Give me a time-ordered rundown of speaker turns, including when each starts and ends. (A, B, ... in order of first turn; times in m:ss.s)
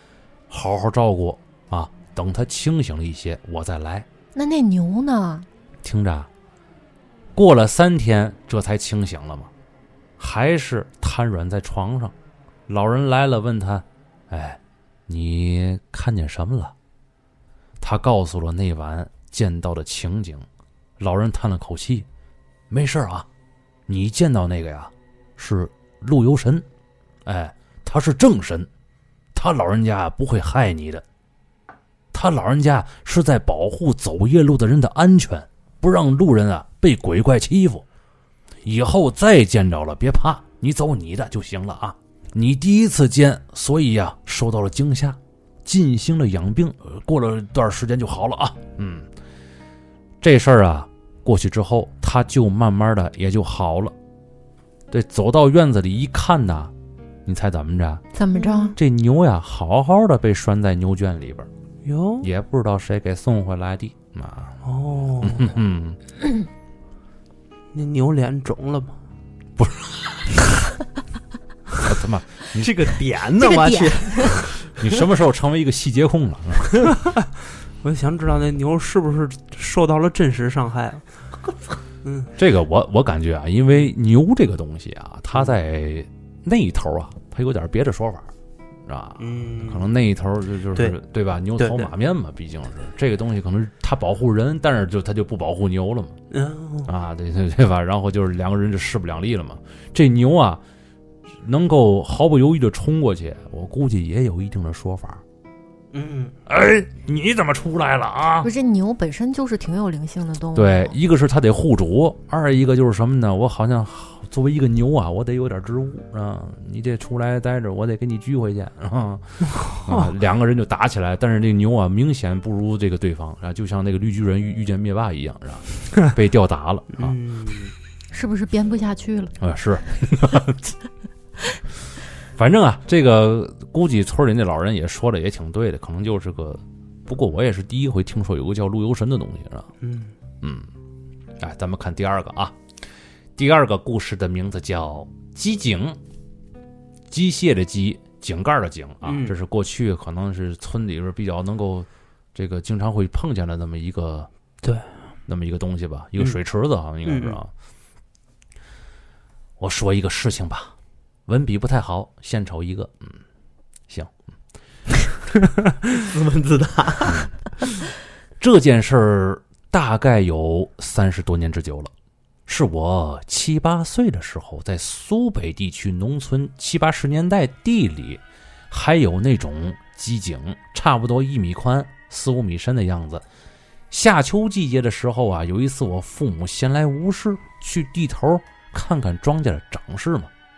0:00.5-0:04.1 A
0:04.3-0:05.5 B
0:05.8-0:06.3 A
0:07.4-0:09.5 A
0:10.2-0:12.1 A
0:12.7-0:16.7 A
0:17.8-0:20.5 A
0:21.0-0:22.1 A
0:22.7-0:23.3 A
0:23.9-0:26.6 A
0:27.3-0:28.7 A
0:29.4-0:31.0 A
0:32.1-0:37.8 A
0:38.6-0:49.1 A
0:50.2-0:53.9 A
0:54.9-0:56.7 A
0:57.3-0:58.0 A
0:58.2-0:58.8 B
0:58.4-0:58.7 C
0:58.8-1:01.5 A
1:01.8-1:02.3 C
1:02.2-1:04.6 A
1:04.6-1:05.6 C
1:05.2-1:06.0 A
1:07.7-1:09.0 C
1:09.6-1:10.0 A
1:11.8-1:12.7 A
1:12.5-1:14.5 D
1:13.4-1:14.4 B
1:14.8-1:17.0 A
1:17.8-1:21.0 C
1:22.0-1:22.3 C
1:22.4-1:28.3 A
1:28.9-1:36.2 A
1:29.2-1:29.9 C
1:31.6-1:31.9 C
1:36.3-1:36.9 C
1:36.9-1:40.6 A
1:41.4-1:45.2 A
1:45.9-1:46.4 C
1:46.5-1:48.5 A
1:48.4-1:51.0 B
1:50.6-2:07.2 A
1:59.5-2:00.1 C
2:07.0-2:07.7 C
2:08.1-2:09.4 B
2:09.4-2:10.7 A
2:12.4-2:19.7 A
2:19.8-2:20.1 C
2:20.4-2:20.7 A
2:21.4-2:22.6 A
2:23.4-2:26.0 A
2:27.1-2:34.3 A
2:29.0-2:29.3 C
2:34.6-2:34.9 C
2:35.3-2:37.5 A
2:37.0-2:37.4 C
2:39.6-2:40.7 A
2:41.3-2:43.2 A
2:46.0-2:47.3 D
2:47.1-2:47.3 A
2:48.4-2:51.9 A
2:52.5-3:03.2 A
3:03.9-3:10.3 A